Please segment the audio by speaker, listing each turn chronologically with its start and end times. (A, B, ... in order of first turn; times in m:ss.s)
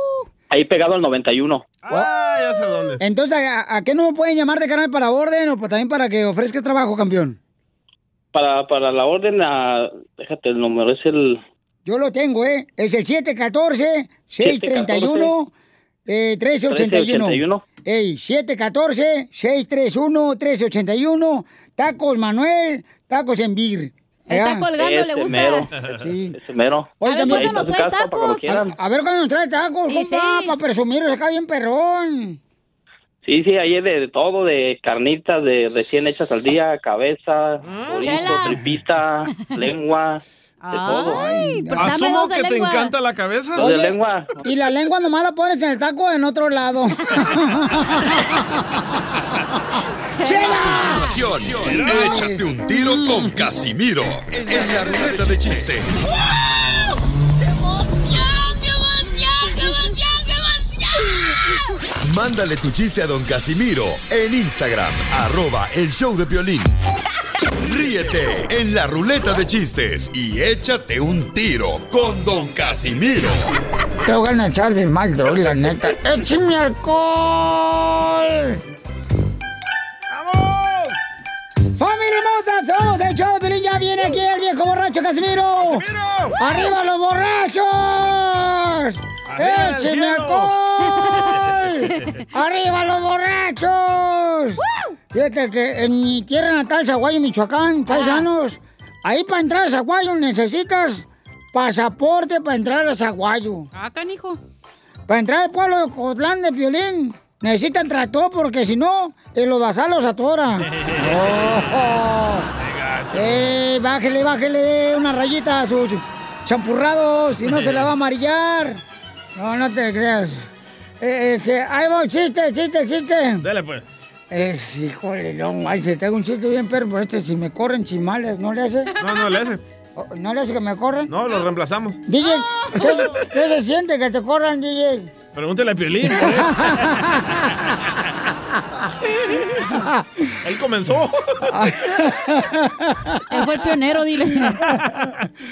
0:00.5-0:01.6 A
0:01.8-0:03.0 B
0:03.0-0:07.4 C
0:08.3-0:11.4 A
0:11.8-0:15.5 C
0:14.4-0:15.3 A
0:16.1-0:24.7 C
0:16.7-0:17.6 A
0:24.3-0:25.7 D
0:24.8-0:25.7 A
0:25.9-0:26.3 C
0:26.3-0:28.7 A
0:27.0-0:27.7 C
0:27.0-0:28.4 D
0:28.4-0:32.4 C
0:29.9-0:30.5 D
0:33.2-0:40.2 A
0:37.6-0:38.5 B
0:38.0-0:38.6 D
0:40.6-0:42.9 D
0:40.7-0:41.2 A
0:41.1-0:42.0 C
0:41.8-0:43.9 B
0:43.6-0:44.3 A
0:44.4-0:49.1 C
0:50.1-0:51.2 D
0:50.2-0:51.1 C
0:50.7-0:56.0 E
0:51.4-0:52.2 B
0:51.8-0:53.3 C
1:02.0-1:06.7 E
1:07.6-1:13.5 E
1:14.0-1:18.6 C
1:20.1-1:20.9 B
1:21.8-1:25.8 C
1:25.6-1:26.4 B
1:26.4-1:34.6 C
1:29.3-1:30.5 B
1:35.1-1:43.7 C
1:37.9-1:38.2 D
1:43.7-1:44.4 D
1:45.1-1:52.5 C
1:50.7-1:51.6 B
1:52.6-1:53.6 B
1:53.1-1:58.8 C
1:57.5-1:57.9 B
1:59.4-2:00.5 C
2:01.0-2:03.4 C
2:03.4-2:03.8 B
2:04.3-2:08.9 C
2:09.0-2:09.6 B
2:10.0-2:11.1 C
2:11.1-2:12.0 B
2:12.1-2:15.1 C
2:12.2-2:13.2 D
2:15.3-2:16.9 B
2:16.1-2:17.6 C
2:19.7-2:20.3 C
2:20.4-2:21.6 B
2:21.5-2:23.7 C
2:23.3-2:24.6 D
2:24.4-2:24.9 C